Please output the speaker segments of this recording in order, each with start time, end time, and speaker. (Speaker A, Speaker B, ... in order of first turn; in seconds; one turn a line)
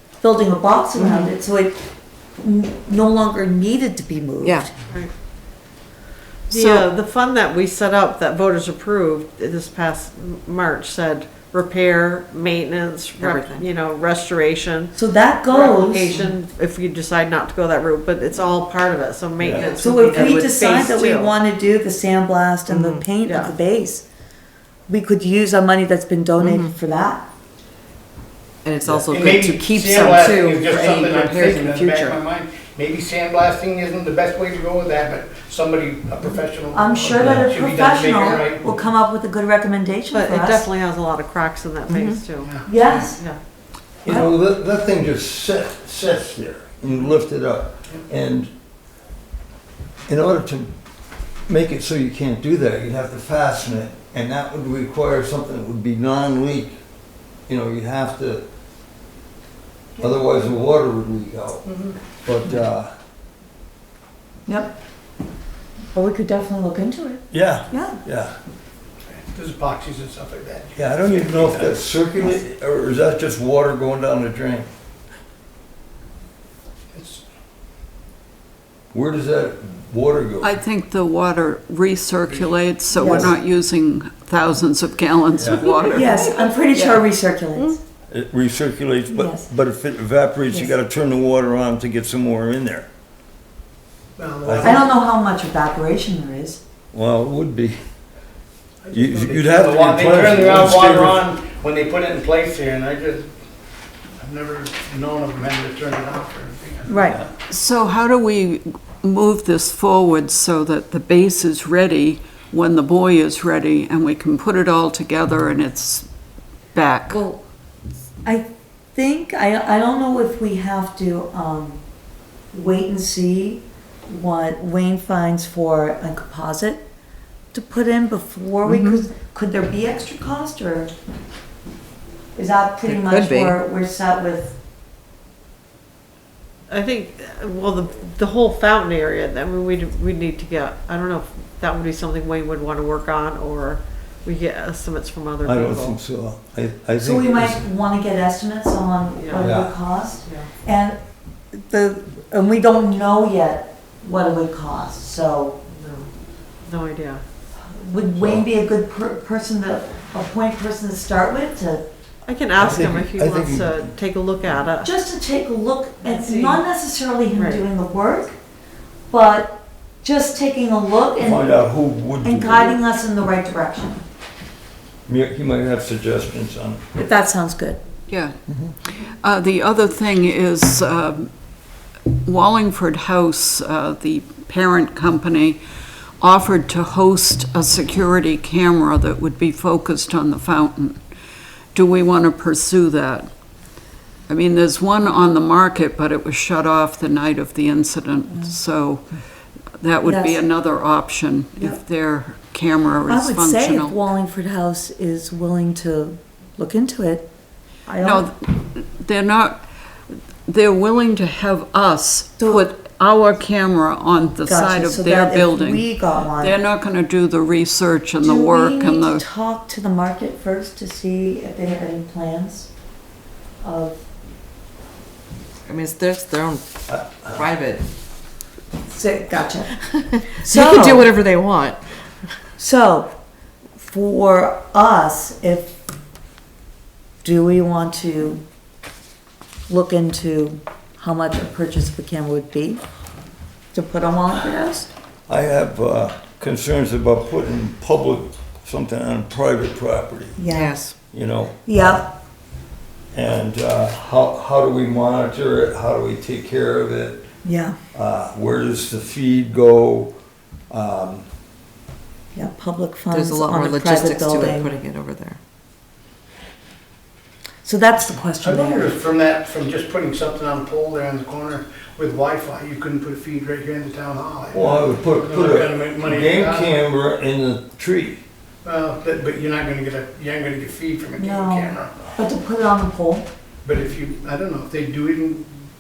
Speaker A: 0.2-1.8
Speaker B: 1.0-1.3
Speaker A: 2.4-4.7
Speaker B: 4.4-4.7
Speaker B: 6.5-6.9
Speaker C: 6.5-14.9
Speaker B: 13.2-13.7
Speaker A: 14.9-16.2
Speaker C: 15.5-21.3
Speaker D: 19.4-19.7
Speaker B: 19.6-20.5
Speaker A: 19.7-24.1
Speaker B: 22.7-23.1
Speaker C: 23.2-23.6
Speaker A: 24.9-27.3
Speaker B: 26.4-26.7
Speaker B: 28.6-32.2
Speaker D: 28.9-29.1
Speaker E: 29.1-38.7
Speaker A: 36.7-40.6
Speaker D: 37.1-37.5
Speaker C: 40.1-43.4
Speaker B: 41.9-42.2
Speaker E: 42.4-43.1
Speaker A: 42.7-43.2
Speaker D: 44.0-48.5
Speaker D: 50.1-50.7
Speaker D: 51.5-56.8
Speaker D: 57.5-58.5
Speaker D: 60.0-61.7
Speaker E: 61.7-61.9
Speaker D: 62.2-62.9
Speaker A: 64.5-64.8
Speaker A: 65.9-68.0
Speaker D: 67.3-68.4
Speaker E: 69.1-71.9
Speaker D: 70.8-74.7
Speaker E: 76.9-77.2
Speaker D: 78.9-80.5
Speaker F: 80.4-86.3
Speaker A: 83.0-83.3
Speaker D: 83.0-83.3
Speaker D: 85.4-85.7
Speaker B: 85.6-87.7
Speaker A: 85.9-87.8
Speaker D: 88.1-92.9
Speaker A: 89.1-89.5
Speaker E: 94.2-94.9
Speaker D: 94.5-94.9
Speaker A: 94.6-96.6
Speaker D: 96.9-97.8
Speaker E: 98.8-103.3
Speaker D: 98.9-101.2
Speaker E: 104.2-107.3
Speaker A: 106.9-107.2
Speaker F: 107.5-116.1
Speaker F: 116.7-117.2
Speaker B: 117.1-117.4
Speaker A: 118.2-121.8
Speaker A: 122.5-126.9
Speaker A: 127.5-130.9
Speaker B: 128.7-129.1
Speaker A: 132.4-134.6
Speaker B: 132.8-133.6
Speaker C: 136.7-146.0
Speaker D: 145.4-147.7
Speaker A: 147.0-151.0
Speaker C: 149.2-149.7
Speaker D: 149.4-149.7
Speaker C: 150.2-150.5
Speaker A: 151.5-155.6
Speaker C: 155.7-156.1
Speaker C: 156.7-157.2
Speaker A: 157.7-161.8
Speaker D: 158.2-158.5
Speaker C: 162.2-164.9
Speaker D: 162.6-163.9
Speaker A: 164.8-168.3
Speaker C: 166.0-166.7
Speaker C: 167.3-167.6
Speaker A: 169.1-171.5
Speaker D: 171.2-172.8
Speaker A: 172.2-174.0
Speaker D: 175.1-176.9
Speaker A: 177.0-177.8
Speaker F: 178.1-178.3
Speaker F: 178.9-181.3
Speaker F: 182.2-185.6
Speaker F: 186.2-191.0
Speaker F: 191.7-193.3
Speaker F: 194.3-199.1
Speaker F: 199.8-204.0
Speaker A: 200.0-200.4
Speaker A: 203.1-207.3
Speaker A: 207.9-208.3
Speaker F: 208.0-219.2
Speaker A: 214.5-216.6
Speaker A: 218.2-222.7
Speaker A: 223.6-224.1
Speaker B: 225.7-227.8
Speaker D: 226.9-227.5
Speaker A: 228.9-229.7
Speaker B: 229.8-231.8
Speaker A: 230.3-231.1
Speaker A: 232.6-233.1
Speaker A: 233.8-235.8
Speaker A: 237.2-238.4
Speaker A: 239.7-242.8
Speaker A: 243.7-244.9
Speaker D: 245.3-250.4
Speaker A: 250.4-250.8
Speaker B: 250.5-250.9
Speaker D: 251.1-252.1
Speaker A: 251.7-252.1
Speaker D: 253.1-257.3
Speaker A: 257.4-257.8
Speaker D: 257.9-260.1
Speaker D: 260.7-261.3
Speaker A: 262.4-264.8
Speaker B: 263.1-265.4
Speaker A: 267.6-269.0
Speaker E: 268.4-276.8
Speaker D: 274.5-278.2
Speaker E: 278.6-281.9
Speaker A: 281.2-283.3
Speaker E: 283.6-285.5